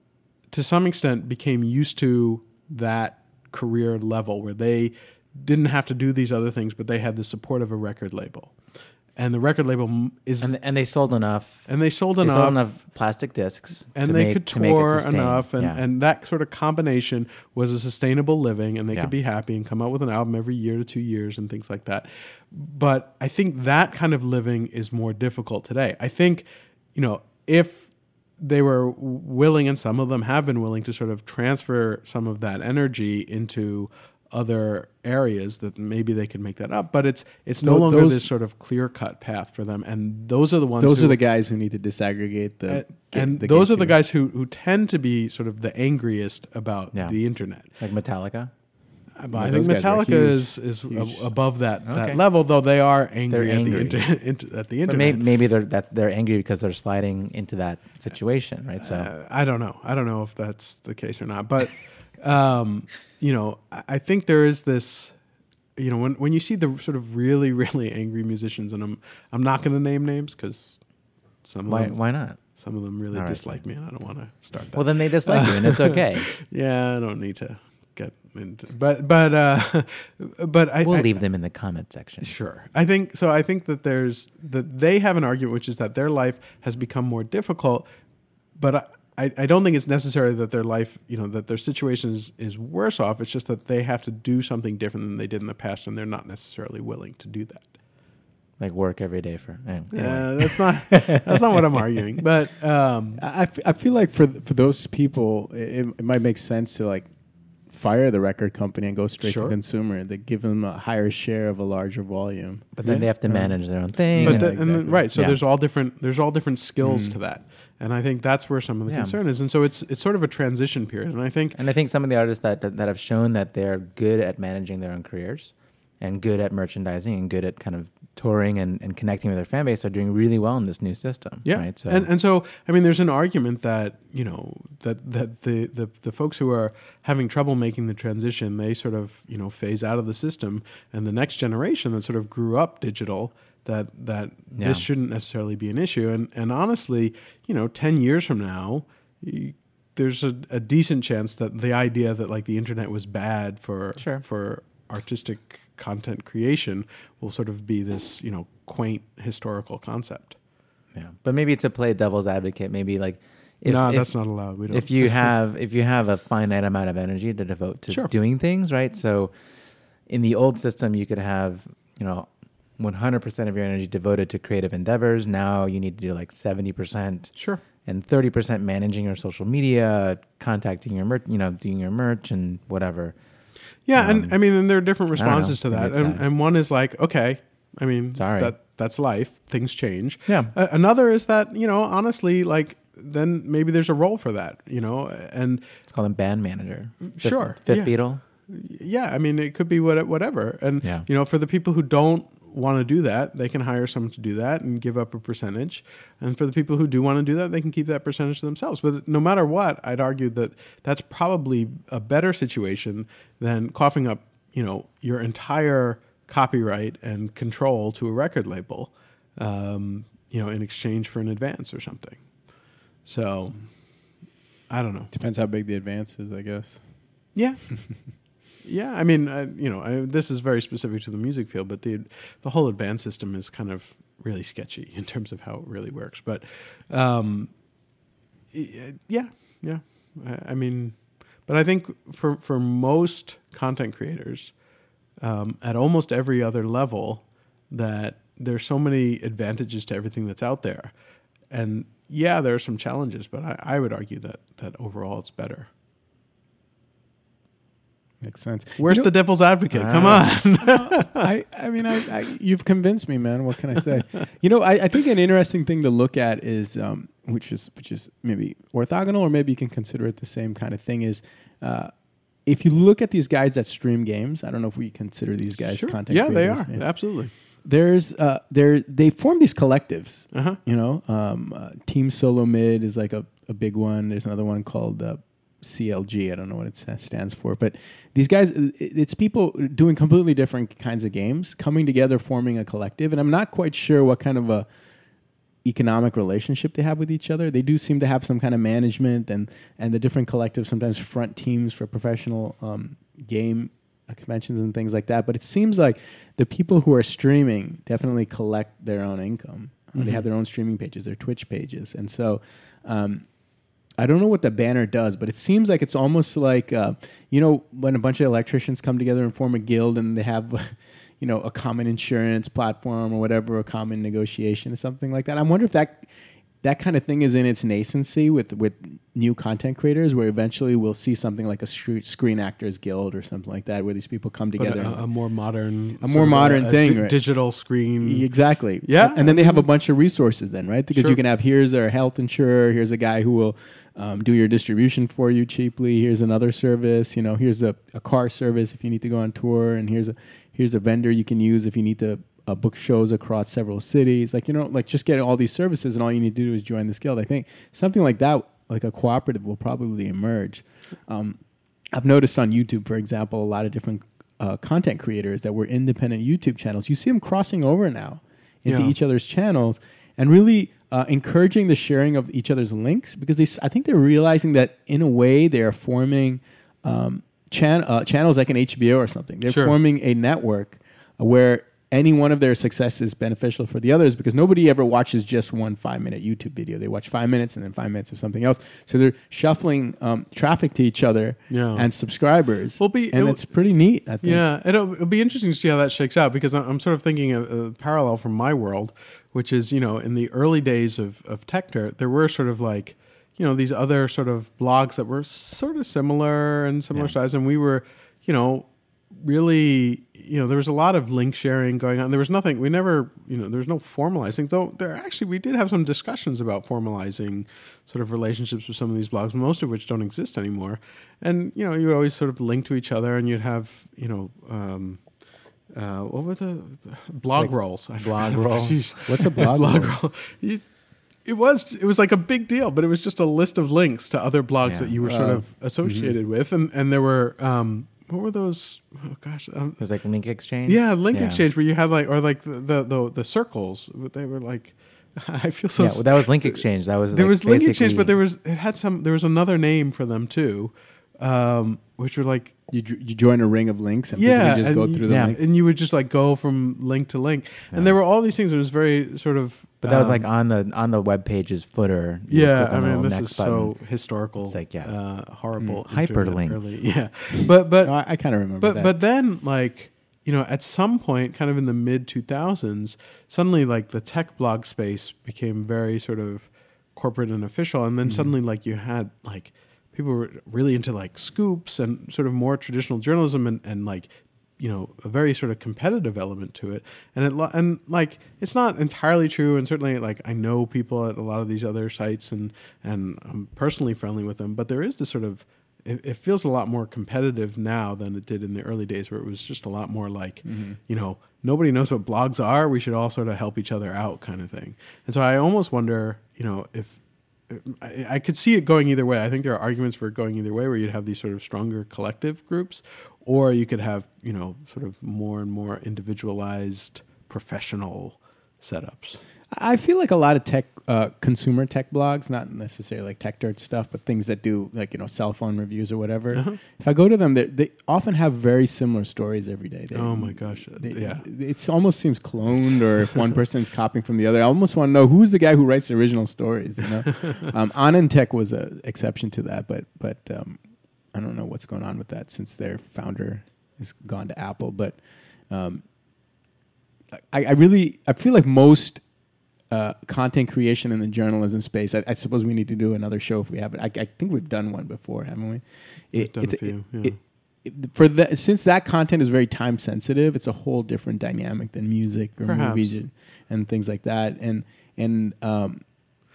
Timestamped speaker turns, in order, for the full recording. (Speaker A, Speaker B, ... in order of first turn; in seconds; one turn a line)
Speaker A: 0.5-8.6
Speaker A: 9.1-10.5
Speaker B: 10.4-15.8
Speaker A: 11.7-12.7
Speaker A: 13.9-41.2
Speaker C: 37.6-38.3
Speaker C: 40.8-44.0
Speaker A: 42.7-47.7
Speaker B: 46.9-48.5
Speaker A: 49.1-55.2
Speaker C: 49.3-51.3
Speaker B: 51.9-52.2
Speaker B: 53.3-54.0
Speaker B: 54.9-59.1
Speaker A: 58.8-65.2
Speaker A: 65.8-81.2
Speaker B: 71.7-73.7
Speaker B: 74.7-76.3
Speaker B: 80.8-82.3
Speaker A: 82.2-87.8
Speaker A: 88.5-97.7
Speaker B: 98.6-101.2
Speaker A: 99.9-103.2
Speaker C: 103.2-107.1
Speaker C: 107.7-113.5
Speaker A: 109.2-109.5
Speaker B: 112.8-115.4
Speaker C: 114.1-114.7
Speaker A: 114.2-121.6
Speaker C: 116.8-117.2
Speaker B: 118.9-119.2
Speaker B: 121.5-132.1
Speaker A: 131.4-160.3
Speaker B: 144.5-144.8
Speaker B: 154.0-154.2
Speaker B: 160.9-169.3
Speaker A: 163.6-165.3
Speaker A: 167.9-168.1
Speaker B: 170.1-183.2
Speaker A: 177.3-177.6
Speaker A: 183.9-195.7
Speaker B: 183.9-184.4
Speaker B: 185.1-186.2
Speaker B: 188.1-188.5
Speaker B: 190.3-190.5
Speaker B: 195.9-198.2
Speaker A: 197.0-224.1
Speaker A: 224.7-225.1
Speaker C: 225.1-227.0
Speaker A: 227.3-237.7
Speaker A: 238.5-244.6
Speaker A: 245.2-250.9
Speaker A: 251.5-255.7
Speaker C: 258.2-259.1
Speaker A: 258.8-261.2
Speaker B: 259.7-260.3
Speaker C: 259.9-271.9
Speaker C: 272.4-294.7
Speaker A: 275.7-277.3
Speaker A: 280.3-280.6
Speaker C: 295.6-313.3
Speaker A: 309.9-310.3
Speaker C: 314.0-326.1
Speaker C: 326.6-335.1
Speaker A: 334.6-338.3
Speaker C: 336.0-337.2
Speaker C: 338.0-361.4
Speaker A: 338.8-339.6
Speaker A: 340.9-341.2
Speaker C: 361.9-394.4
Speaker A: 368.6-368.9
Speaker A: 379.5-379.8
Speaker A: 391.5-392.2
Speaker A: 392.8-425.2
Speaker A: 425.7-430.7
Speaker B: 427.3-428.9
Speaker C: 429.1-430.0
Speaker A: 431.2-439.8
Speaker B: 434.6-434.9
Speaker C: 435.0-436.1
Speaker B: 439.8-441.4
Speaker A: 440.6-452.6
Speaker B: 445.8-448.2
Speaker C: 452.7-455.4
Speaker A: 454.1-460.2
Speaker B: 455.1-455.4
Speaker B: 459.8-466.8
Speaker A: 462.3-519.2
Speaker C: 467.8-469.0
Speaker C: 478.0-478.3
Speaker C: 500.4-500.8
Speaker C: 519.5-545.8
Speaker A: 526.3-526.6
Speaker A: 529.9-531.2
Speaker C: 547.1-549.0
Speaker C: 549.7-565.8
Speaker A: 556.1-557.1
Speaker A: 562.4-563.0